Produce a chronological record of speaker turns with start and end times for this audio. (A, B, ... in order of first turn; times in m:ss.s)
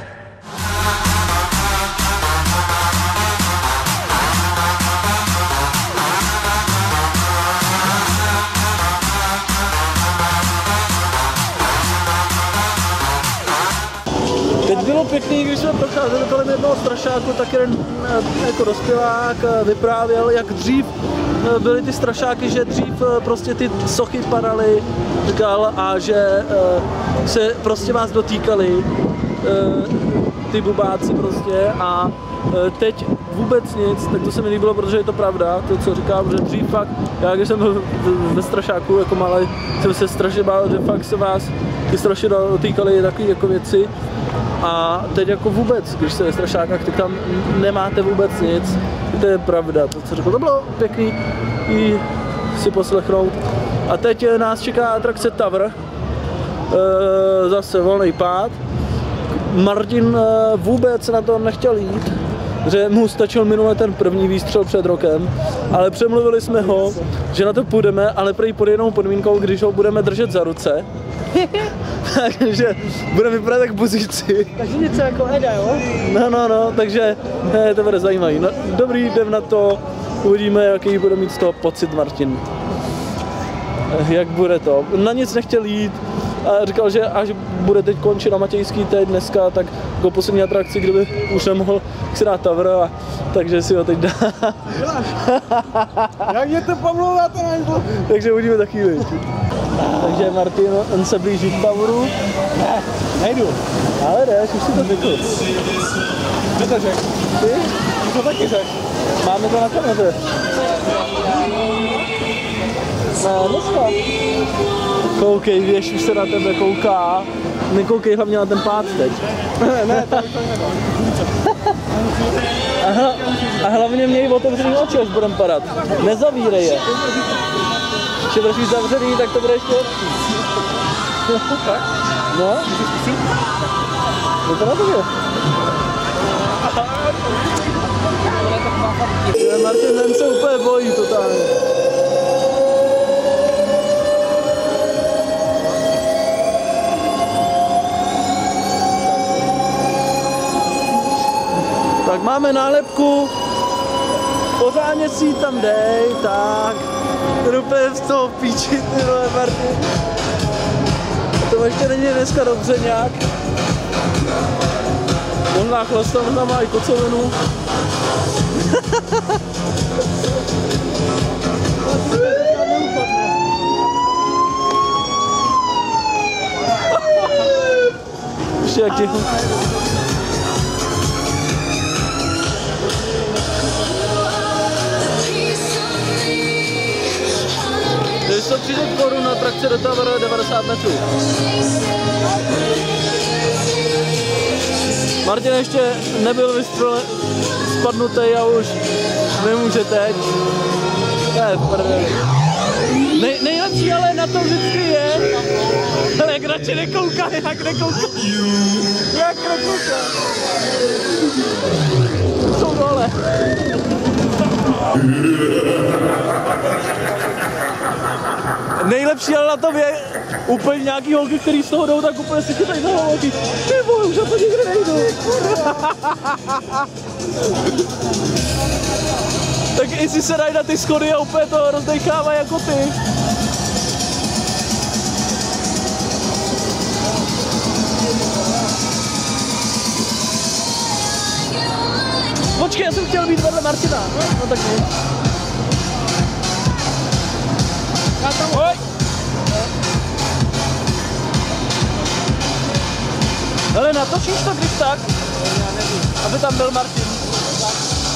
0:14.6-0:28.9 A
0:29.4-0:43.9 A
0:44.6-0:55.7 A
0:56.7-0:58.6 A
0:59.4-1:15.0 A
1:14.7-1:15.9 B
1:15.8-1:22.4 A
1:23.9-1:36.3 A
1:34.7-1:35.2 B
1:36.2-1:38.0 B
1:37.9-1:39.2 A
1:39.7-1:42.2 A
1:43.0-1:43.6 B
1:44.0-1:45.4 A
1:46.5-1:47.1 B
1:47.4-1:47.8 A
1:48.0-1:48.8 B
1:49.2-1:50.2 A
1:53.2-1:54.0 A
1:55.1-2:00.3 A
1:59.6-2:01.0 B
2:02.8-2:07.0 A
2:08.2-2:10.0 A
2:11.4-2:11.6 A
2:12.3-2:12.7 A
2:14.4-2:15.1 A
2:19.2-2:21.5 A
2:32.0-2:33.3 A
2:34.6-2:36.9 A
2:37.4-2:39.9 A
2:41.4-2:43.2 A
2:45.5-2:47.3 A
2:48.7-2:49.2 A
2:52.3-2:53.0 A
2:58.6-2:59.4 A
3:08.2-3:11.0 A
3:15.2-3:18.8 A
3:19.3-3:20.3 A
3:21.3-3:22.2 A
3:23.1-3:28.5 A
3:29.1-3:30.1 A
3:32.5-3:33.2 A
3:38.8-3:46.6 A
3:49.7-3:53.0 A
4:02.5-4:04.9 A
4:08.3-4:08.8 A
4:13.7-4:15.2 A
4:15.9-4:17.2 A